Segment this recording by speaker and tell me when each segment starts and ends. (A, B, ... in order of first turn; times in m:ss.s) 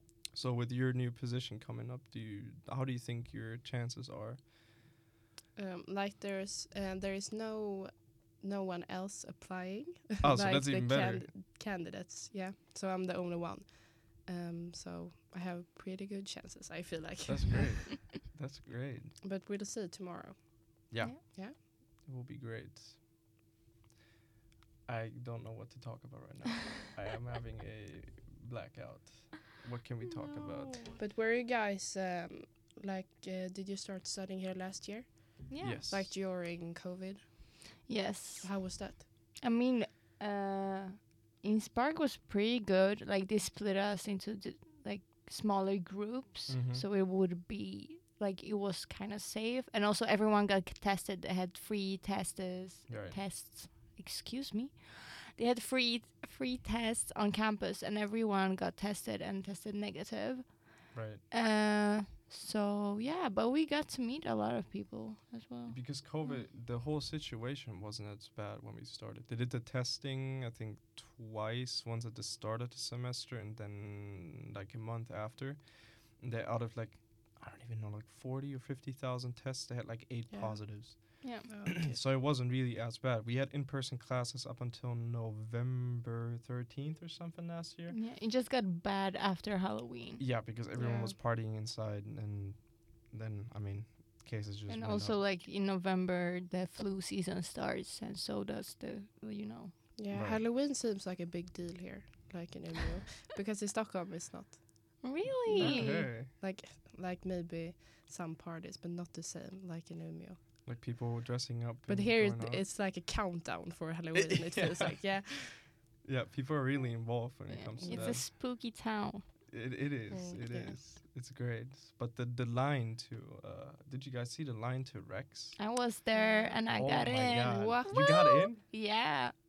0:00.3-0:04.4 A
0:05.6-0:17.9 B
0:10.2-0:11.3 A
0:17.3-0:19.2 A
0:19.2-0:21.6 B
0:20.9-0:23.0 A
0:24.8-0:30.8 A
0:30.0-0:31.0 C
0:31.0-0:37.5 B
0:35.5-0:35.8 C
0:35.6-0:36.2 A
0:37.9-0:38.7 C
0:38.4-0:39.0 B
0:39.4-1:06.4 C
0:46.5-0:46.8 A
0:52.9-0:53.2 A
1:00.9-1:01.2 A
1:05.7-1:28.0 A
1:20.3-1:22.0 B
1:21.2-1:21.5 C
1:27.9-1:30.2 C
1:30.2-1:35.2 A
1:30.8-1:31.1 B
1:34.7-1:39.8 C
1:40.0-1:44.6 B
1:40.1-1:40.4 A
1:45.0-1:46.1 C
1:45.4-1:50.4 B
1:45.6-1:46.3 A
1:50.6-1:52.6 A
1:51.9-1:55.6 B
1:54.1-1:55.4 A
1:56.0-1:58.3 A
1:57.5-1:59.2 C
1:57.8-1:58.2 B
1:59.5-2:05.6 A
2:00.1-2:00.8 B
2:05.6-2:09.3 C
2:06.1-2:06.6 B
2:06.7-2:08.6 A
2:07.4-2:08.0 B